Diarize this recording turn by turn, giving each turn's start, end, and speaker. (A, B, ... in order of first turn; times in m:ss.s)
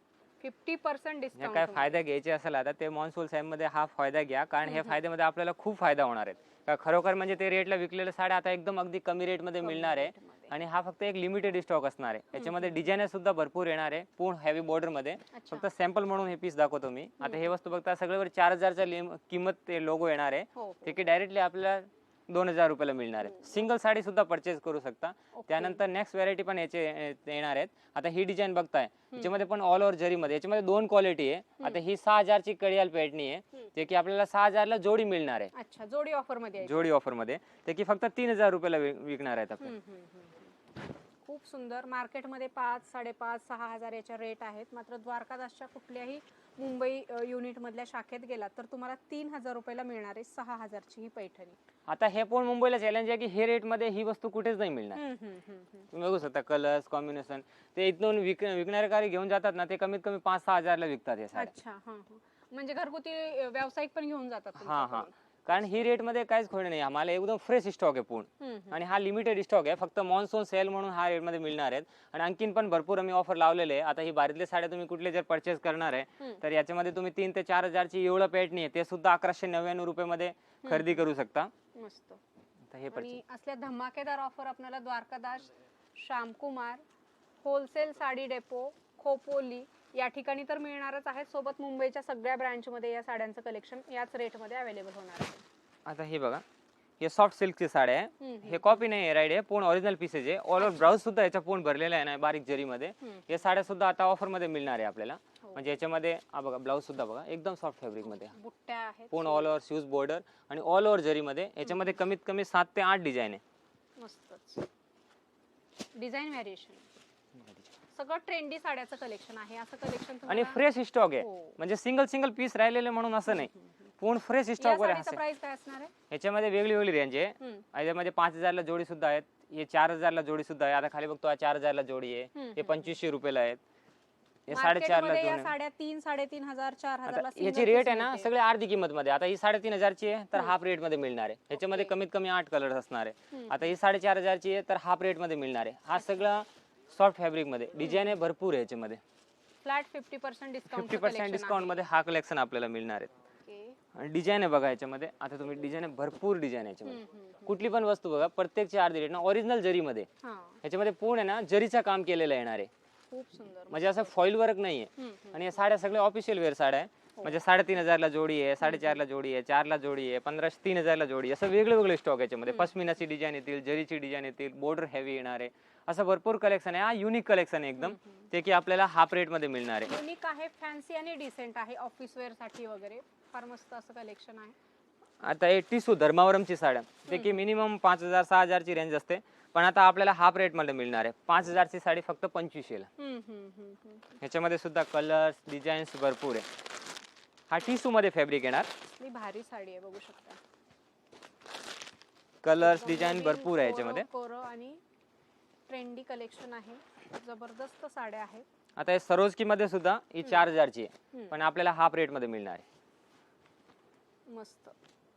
0:00.4-0:02.0 A
0:01.4-0:35.5 B
0:04.6-0:05.0 A
0:09.6-0:10.5 A
0:12.4-0:12.8 A
0:15.3-0:15.7 A
0:17.2-0:17.5 A
0:20.6-0:21.0 A
0:25.3-0:25.8 A
0:29.1-0:29.4 A
0:35.5-0:36.9 A
0:36.6-0:39.7 B
0:39.6-0:40.5 A
0:41.2-0:51.6 A
0:51.9-0:55.0 B
0:54.9-0:55.9 A
0:55.9-1:01.5 B
1:01.3-1:05.1 A
1:04.6-1:21.5 B
1:08.4-1:08.8 A
1:20.6-1:21.0 A
1:21.7-1:22.2 A
1:22.7-1:23.2 B
1:22.9-1:26.8 A
1:27.4-1:35.4 A
1:35.8-1:36.4 B
1:37.0-1:48.3 B
1:38.2-1:38.8 A
1:40.6-1:40.9 A
1:43.0-1:43.3 A
1:45.4-1:45.8 A
1:48.0-1:49.5 A
1:49.1-1:53.4 B
1:51.6-1:51.9 A
1:54.0-1:54.7 A
1:55.9-1:56.9 A
1:57.9-2:00.6 A
2:00.2-2:05.2 B
2:01.2-2:01.6 A
2:03.3-2:03.6 A
2:04.6-2:05.9 A
2:06.1-2:13.6 B
2:12.3-2:12.9 A
2:14.5-2:15.5 B
2:14.5-2:18.3 A
2:17.1-2:29.0 B
2:21.6-2:21.9 A
2:23.3-2:23.7 A
2:27.8-2:28.1 A
2:29.6-2:31.9 A
2:30.7-2:33.1 B
2:33.4-2:33.8 A
2:33.9-2:40.1 B
2:36.8-2:37.6 A
2:40.2-2:40.6 A
2:40.6-2:42.7 B
2:43.1-2:44.1 A
2:43.7-2:59.9 B
2:45.0-2:45.5 A
2:48.6-2:49.0 A
2:57.8-2:58.3 A
2:59.8-3:04.5 A
3:05.2-3:12.9 B
3:07.1-3:07.4 A
3:13.0-3:14.2 A
3:14.2-3:16.4 B
3:17.5-3:18.7 B
3:18.8-3:20.4 A
3:22.4-3:24.0 B
3:22.6-3:24.8 A
3:25.7-3:28.4 A
3:28.8-3:32.6 B
3:34.3-3:34.7 A